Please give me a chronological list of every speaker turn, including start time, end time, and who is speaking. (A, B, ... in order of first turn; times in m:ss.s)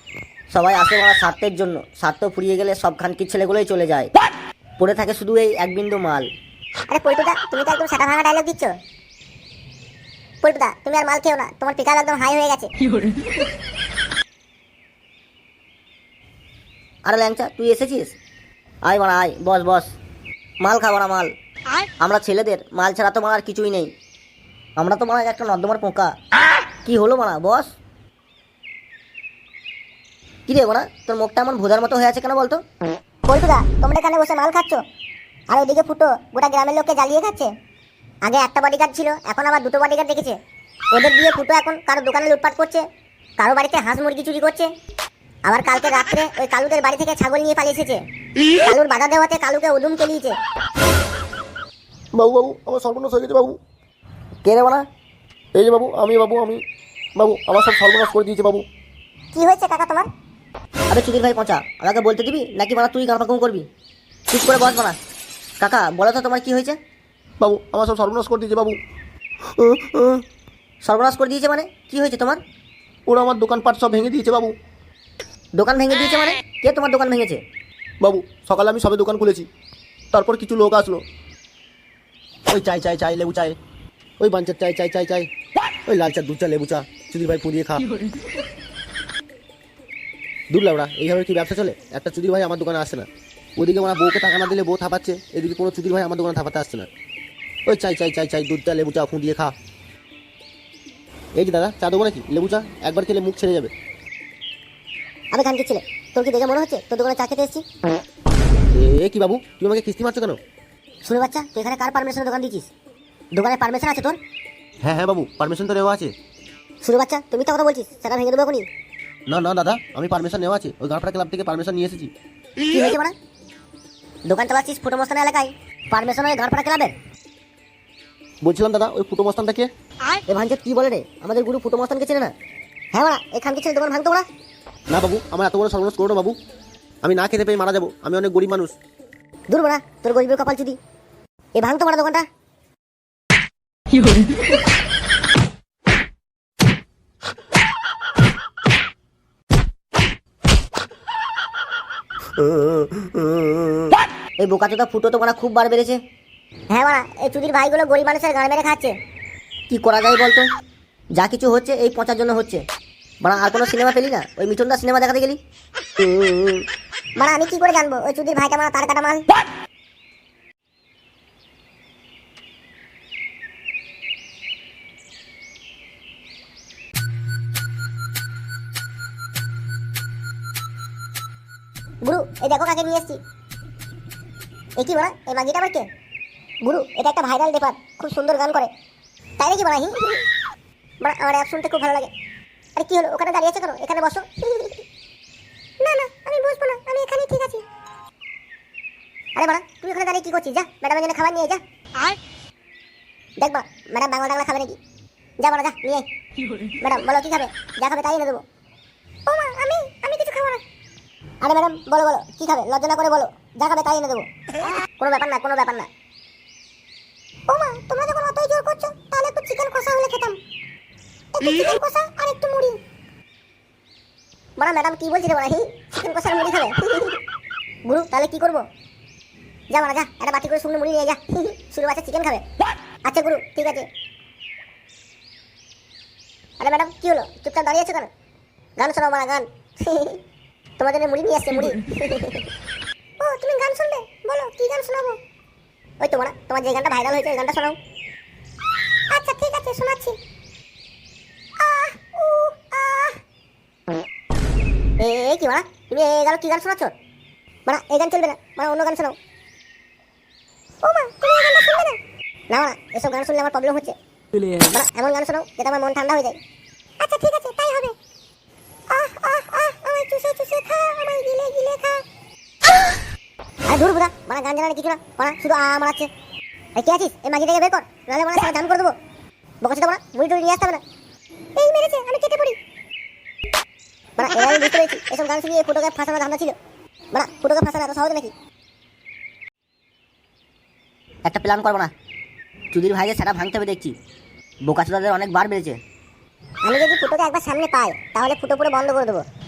0:00.5-0:04.1 A
0:04.8-0:06.3 A
0:06.9-0:08.7 B
0:10.4-0:12.7 B
0:17.0-0:18.1 A
0:18.8-0:19.9 A
0:20.6-0:21.3 A
0:22.0-0:23.9 A
0:24.8-0:26.1 A
0:26.8-0:27.7 A
0:30.5-0:32.6 A
0:33.3-0:34.8 B
0:35.5-0:37.5 B
0:38.2-0:40.4 B
0:40.9-0:42.8 B
0:43.4-0:44.7 B
0:45.4-0:48.0 B
0:48.6-0:50.4 B
0:52.2-0:53.6 C
0:54.4-0:54.8 A
0:55.5-0:56.6 C
0:57.2-0:58.6 C
0:59.3-1:00.1 B
1:00.9-1:03.7 A
1:04.3-1:05.0 A
1:05.6-1:06.8 A
1:07.4-1:08.8 C
1:09.6-1:10.2 C
1:10.8-1:12.4 A
1:13.1-1:14.5 C
1:15.5-1:17.4 A
1:18.0-1:19.5 C
1:20.1-1:21.0 C
1:22.5-1:23.6 C
1:24.2-1:25.3 C
1:25.8-1:27.9 C
1:30.5-1:36.9 C
1:37.6-1:39.5 C
1:41.4-1:43.7 C
1:45.3-1:47.6 B
1:48.7-1:50.4 C
1:51.0-1:52.6 B
1:53.3-1:54.2 B
1:54.8-1:56.1 C
1:56.8-1:58.7 B
1:59.3-2:02.1 C
2:02.7-2:03.1 B
2:04.3-2:06.6 B
2:05.9-2:06.9 A
2:08.4-2:09.7 C
2:10.3-2:12.3 A
2:12.9-2:14.2 B
2:14.9-2:16.4 C
2:17.0-2:18.7 C
2:19.5-2:20.8 B
2:21.6-2:22.2 B
2:32.4-2:33.4 C
2:34.4-2:36.0 A
2:36.7-2:38.9 B
2:39.7-2:40.5 A
2:41.2-2:42.6 A
2:43.2-2:45.4 A
2:46.0-2:46.6 A
2:47.2-2:49.2 B
3:02.0-3:03.2 B
3:04.8-3:05.9 B
3:06.6-3:08.7 B
3:09.4-3:10.2 B
3:11.0-3:12.1 B
3:12.8-3:14.8 B
3:15.8-3:17.6 B
3:19.3-3:21.6 B
3:23.4-3:24.8 B
3:25.4-3:26.0 B
3:26.7-3:28.4 B
3:29.3-3:30.6 B
3:31.4-3:34.3 B
3:34.8-3:35.9 B
3:37.5-3:40.4 B
3:41.3-3:42.8 B
3:44.6-3:47.2 B
3:47.8-3:48.6 B
3:49.7-3:52.4 B
3:53.0-3:53.9 B
3:56.6-3:58.1 B
3:58.8-4:00.2 B
4:00.8-4:02.5 B
4:03.2-4:05.2 B
4:06.0-4:07.8 B
4:09.1-4:10.2 B
4:11.6-4:13.2 B
4:15.0-4:16.9 B
4:17.6-4:19.2 B
4:20.8-4:22.0 B
4:22.5-4:24.0 B
4:24.5-4:26.4 B
4:27.0-4:28.0 B
4:28.9-4:32.0 B
4:33.7-4:36.1 B
4:36.8-4:39.0 B
4:39.6-4:40.8 B
4:41.6-4:42.6 B
4:44.2-4:46.6 B
4:47.1-4:48.3 B
4:51.2-4:51.9 A
4:52.7-4:53.9 A
4:54.6-4:55.8 A
4:56.6-4:59.2 B